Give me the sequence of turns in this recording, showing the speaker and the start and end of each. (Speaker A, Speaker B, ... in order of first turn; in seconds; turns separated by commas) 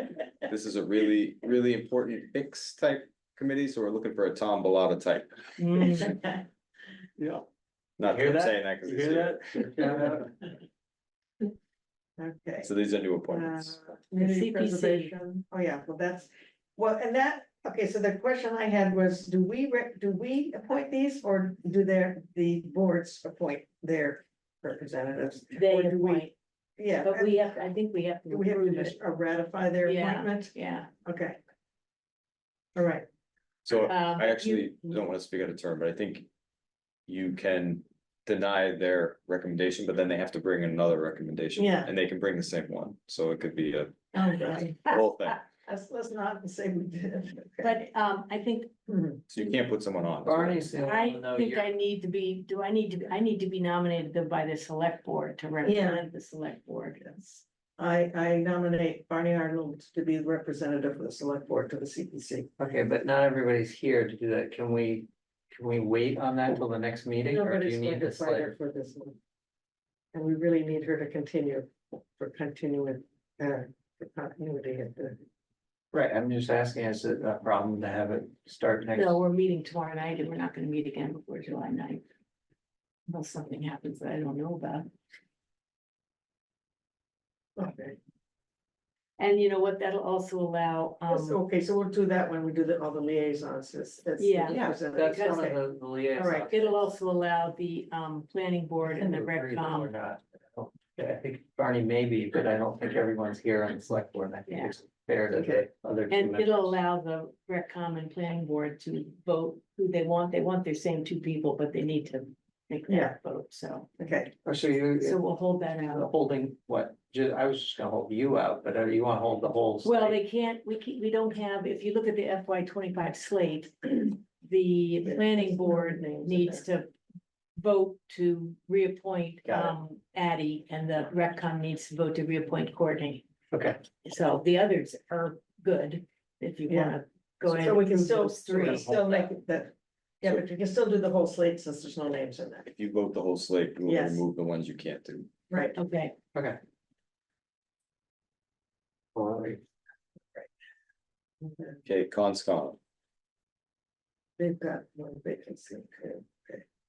Speaker A: 0.5-5.9, Speaker B: 5.7-6.1, Speaker C: 5.8-6.1, Speaker B: 7.2-7.5, Speaker A: 8.0-9.8, Speaker B: 8.0-10.6, Speaker D: 12.2-12.7, Speaker A: 12.6-13.8, Speaker D: 13.3-26.3, Speaker C: 14.2-15.2, Speaker C: 25.5-26.3, Speaker D: 26.8-27.7, Speaker C: 27.0-29.0, Speaker D: 28.3-31.4, Speaker C: 29.8-30.9, Speaker D: 32.8-33.1, Speaker A: 33.6-36.3, Speaker C: 33.9-34.7, Speaker A: 37.1-45.4, Speaker D: 41.6-41.9, Speaker D: 44.1-44.9, Speaker D: 45.7-47.8, Speaker C: 47.6-48.7, Speaker D: 48.9-49.2, Speaker A: 49.3-50.6, Speaker B: 50.2-51.7, Speaker C: 50.9-57.4, Speaker D: 55.6-56.0, Speaker D: 57.8-62.5, Speaker B: 62.6-68.5, Speaker D: 67.3-69.2, Speaker D: 70.1-75.2, Speaker B: 75.9-79.2, Speaker C: 79.0-82.0, Speaker C: 83.1-84.9, Speaker D: 87.6-88.0, Speaker C: 89.2-91.4, Speaker D: 91.1-95.6, Speaker C: 94.2-94.6, Speaker B: 94.5-96.9, Speaker C: 95.1-95.4, Speaker D: 96.2-96.5, Speaker C: 96.5-99.9, Speaker B: 98.8-106.8, Speaker C: 104.5-104.7, Speaker D: 105.3-105.7, Speaker C: 106.1-113.9, Speaker D: 112.9-113.2, Speaker D: 114.0-114.3, Speaker B: 114.4-120.2, Speaker C: 115.0-116.1, Speaker C: 119.8-126.9, Speaker D: 125.0-126.7, Speaker C: 127.6-133.2, Speaker B: 133.5-133.8, Speaker C: 134.0-139.0, Speaker D: 136.7-142.7, Speaker B: 138.6-139.2, Speaker A: 142.7-145.3, Speaker D: 143.9-144.2, Speaker D: 145.5-145.8, Speaker C: 145.7-146.2, Speaker B: 146.3-146.6, Speaker B: 149.2-149.6, Speaker D: 151.4-151.8, Speaker A: 151.8-152.8, Speaker D: 154.4-156.7